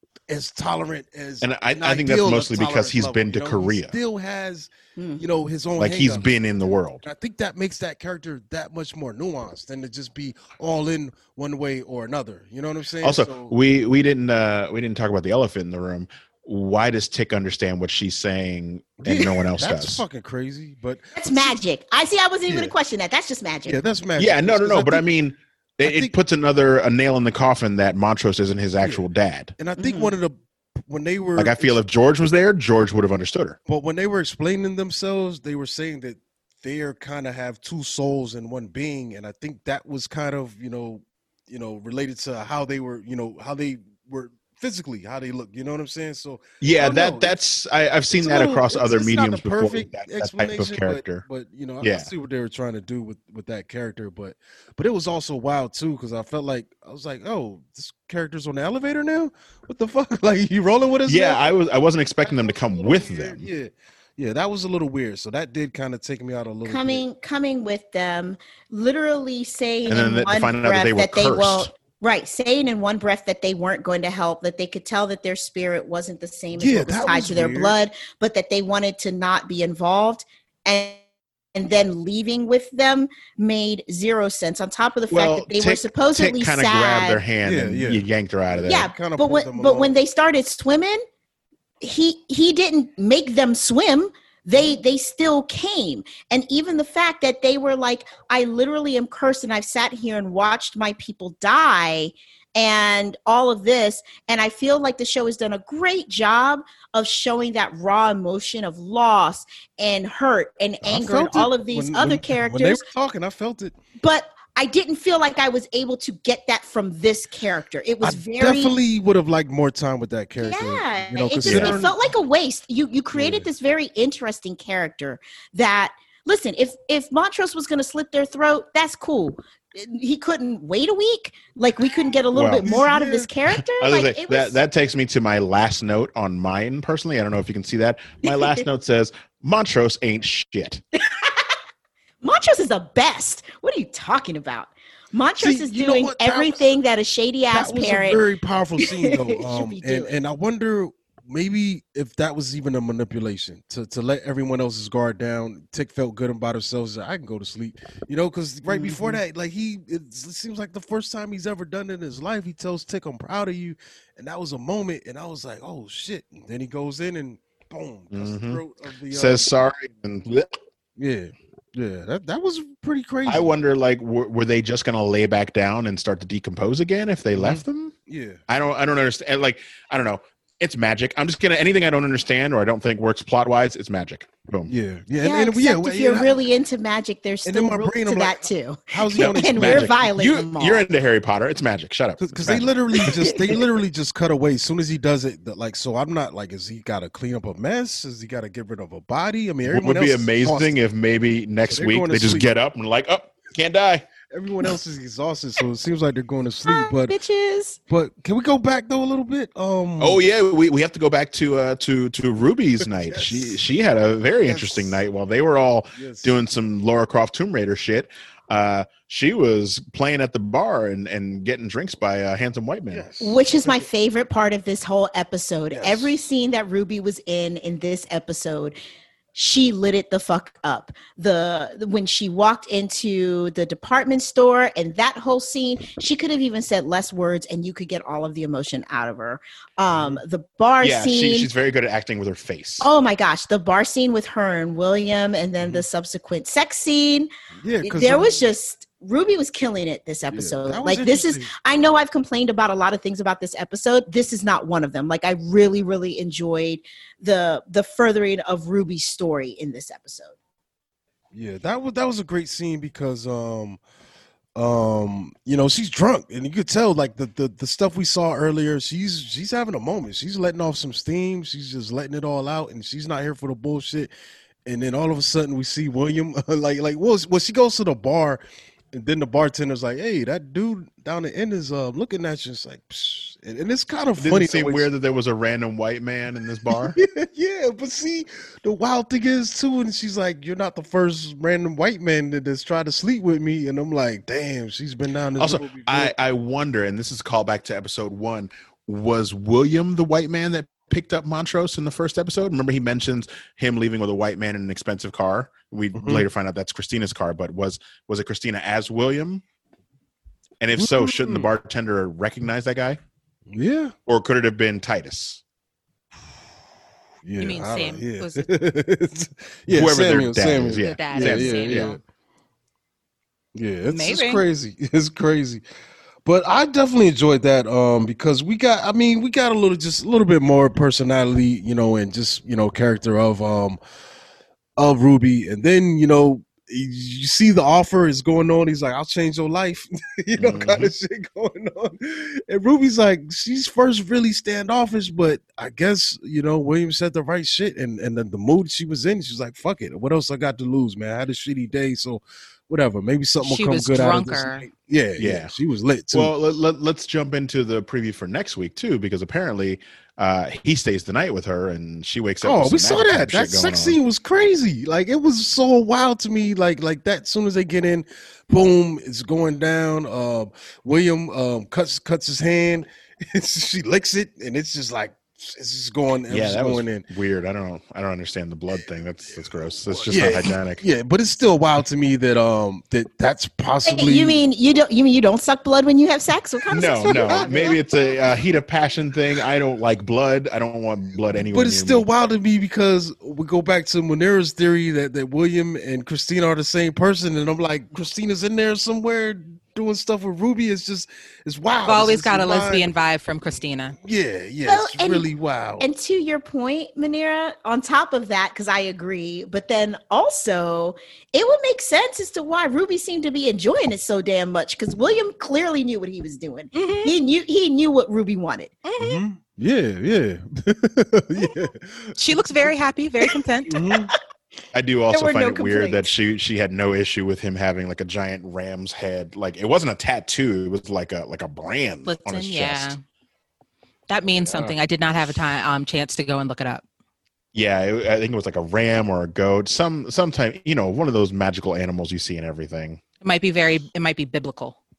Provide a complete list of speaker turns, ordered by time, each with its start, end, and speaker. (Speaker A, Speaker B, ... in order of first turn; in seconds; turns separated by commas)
Speaker A: 0.3-6.3, Speaker B: 1.4-4.0, Speaker B: 5.8-7.0, Speaker A: 7.0-13.5, Speaker B: 13.0-20.0, Speaker A: 19.0-21.6, Speaker C: 21.1-23.8, Speaker A: 22.5-22.7, Speaker A: 23.6-25.0, Speaker B: 24.2-29.5, Speaker A: 25.8-26.1, Speaker A: 29.6-31.8, Speaker C: 29.8-30.1, Speaker B: 31.4-33.6, Speaker A: 33.7-47.3, Speaker B: 46.6-51.2, Speaker A: 48.1-61.4, Speaker B: 51.8-52.1, Speaker B: 61.1-63.5, Speaker A: 62.3-67.0, Speaker C: 66.6-81.0, Speaker B: 69.9-71.7, Speaker A: 76.5-77.8, Speaker C: 81.5-87.2, Speaker B: 85.1-88.9, Speaker A: 87.4-89.9, Speaker C: 88.6-91.0, Speaker C: 91.8-112.8, Speaker A: 110.8-113.8, Speaker C: 114.0-118.8, Speaker A: 118.0-122.0, Speaker C: 120.4-134.6, Speaker B: 121.4-121.9, Speaker A: 123.1-123.5, Speaker B: 132.3-132.7, Speaker A: 132.6-133.3, Speaker B: 133.5-140.8, Speaker C: 138.3-138.6, Speaker C: 142.2-148.2, Speaker A: 145.4-146.7, Speaker A: 147.5-169.5, Speaker C: 148.8-150.1, Speaker C: 158.7-159.2, Speaker B: 168.1-170.5, Speaker A: 171.0-173.5, Speaker B: 173.2-177.9, Speaker A: 177.3-178.4, Speaker B: 178.5-184.7, Speaker A: 184.7-186.4, Speaker C: 185.2-190.8, Speaker A: 187.4-190.0, Speaker B: 189.2-193.1, Speaker A: 192.2-200.8, Speaker B: 199.7-204.1, Speaker A: 201.7-202.5, Speaker A: 204.3-207.2, Speaker C: 206.6-207.8, Speaker A: 207.9-210.2, Speaker B: 210.0-223.1, Speaker A: 212.9-213.6, Speaker A: 214.4-215.0, Speaker A: 215.9-216.3, Speaker A: 222.9-223.8, Speaker C: 223.2-228.8, Speaker A: 225.7-226.1, Speaker C: 229.3-241.5, Speaker A: 239.9-240.2, Speaker B: 240.8-242.9, Speaker C: 242.8-247.3, Speaker A: 247.6-248.4, Speaker C: 247.8-260.3, Speaker A: 250.3-251.5, Speaker A: 261.3-263.8, Speaker A: 264.6-274.1, Speaker A: 274.6-278.4, Speaker A: 278.9-284.9, Speaker B: 284.2-287.0, Speaker A: 286.7-296.1, Speaker B: 295.4-309.4, Speaker A: 305.9-306.2, Speaker B: 310.6-313.0, Speaker A: 310.8-311.5, Speaker A: 313.5-313.9, Speaker B: 314.1-315.4, Speaker A: 317.2-322.0, Speaker D: 317.4-318.5, Speaker B: 319.7-322.0, Speaker D: 320.8-322.0, Speaker A: 323.5-325.6, Speaker D: 323.9-324.4, Speaker A: 326.2-333.8, Speaker A: 334.8-356.3, Speaker B: 340.4-340.9, Speaker D: 353.4-354.7, Speaker B: 355.2-355.5, Speaker B: 356.1-364.0, Speaker A: 362.4-377.1, Speaker B: 376.3-380.8, Speaker A: 379.9-384.4, Speaker C: 383.8-387.8, Speaker B: 386.7-392.0, Speaker A: 387.1-387.7, Speaker A: 391.3-402.9, Speaker D: 401.8-403.9, Speaker A: 404.0-405.9, Speaker C: 404.6-405.3, Speaker C: 405.8-418.7, Speaker D: 416.7-417.1, Speaker D: 418.8-419.2, Speaker A: 419.0-422.7, Speaker D: 422.2-423.7, Speaker A: 423.7-424.1, Speaker B: 424.7-432.9, Speaker C: 425.1-426.1, Speaker D: 432.0-433.0, Speaker D: 434.1-436.8, Speaker B: 437.5-443.0, Speaker D: 443.2-444.8